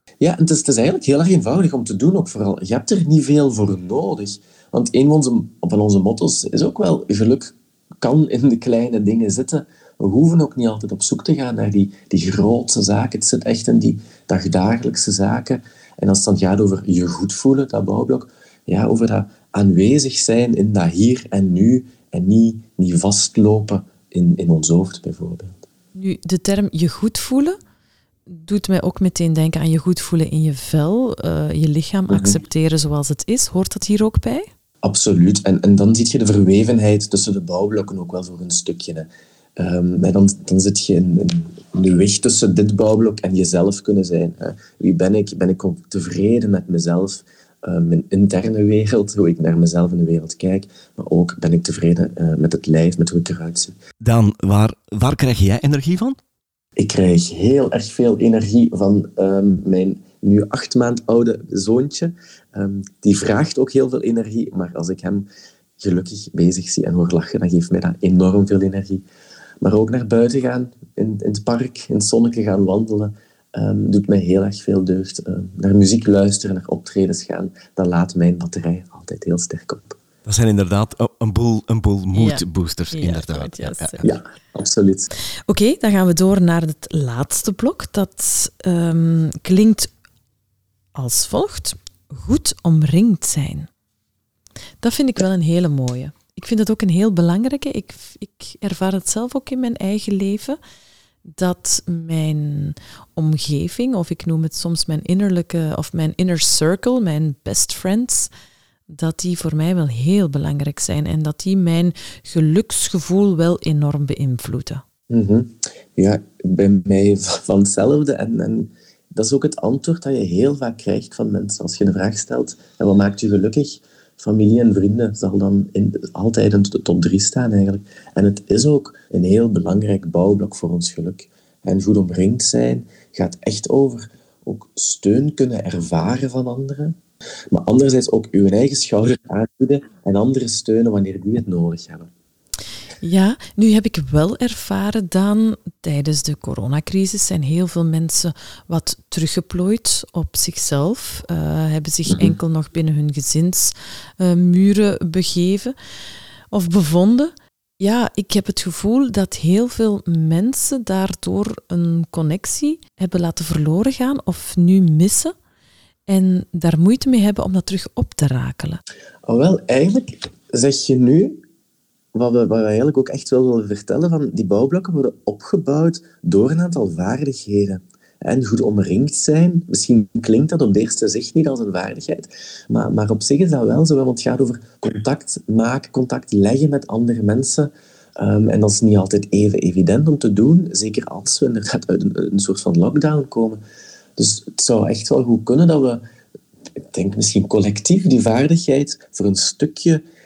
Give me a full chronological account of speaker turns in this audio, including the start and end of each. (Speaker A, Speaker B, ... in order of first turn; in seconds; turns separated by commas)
Speaker A: 0.2-25.6, Speaker B: 25.9-27.6, Speaker B: 28.3-34.5, Speaker A: 32.1-32.4, Speaker A: 34.8-53.8, Speaker C: 54.0-56.2, Speaker A: 56.8-65.3, Speaker A: 65.8-69.0, Speaker A: 69.6-80.0, Speaker C: 80.2-84.1, Speaker B: 82.1-84.0, Speaker A: 84.0-85.1, Speaker B: 85.5-89.9, Speaker B: 91.0-93.7, Speaker B: 94.8-100.6, Speaker B: 101.3-108.3, Speaker B: 108.9-114.8, Speaker A: 115.1-136.9, Speaker A: 137.5-142.1, Speaker B: 143.0-155.7, Speaker A: 152.1-152.3, Speaker B: 156.5-165.3, Speaker B: 166.1-168.8, Speaker A: 169.2-171.4, Speaker A: 172.1-193.6, Speaker A: 194.2-196.0, Speaker A: 196.9-200.0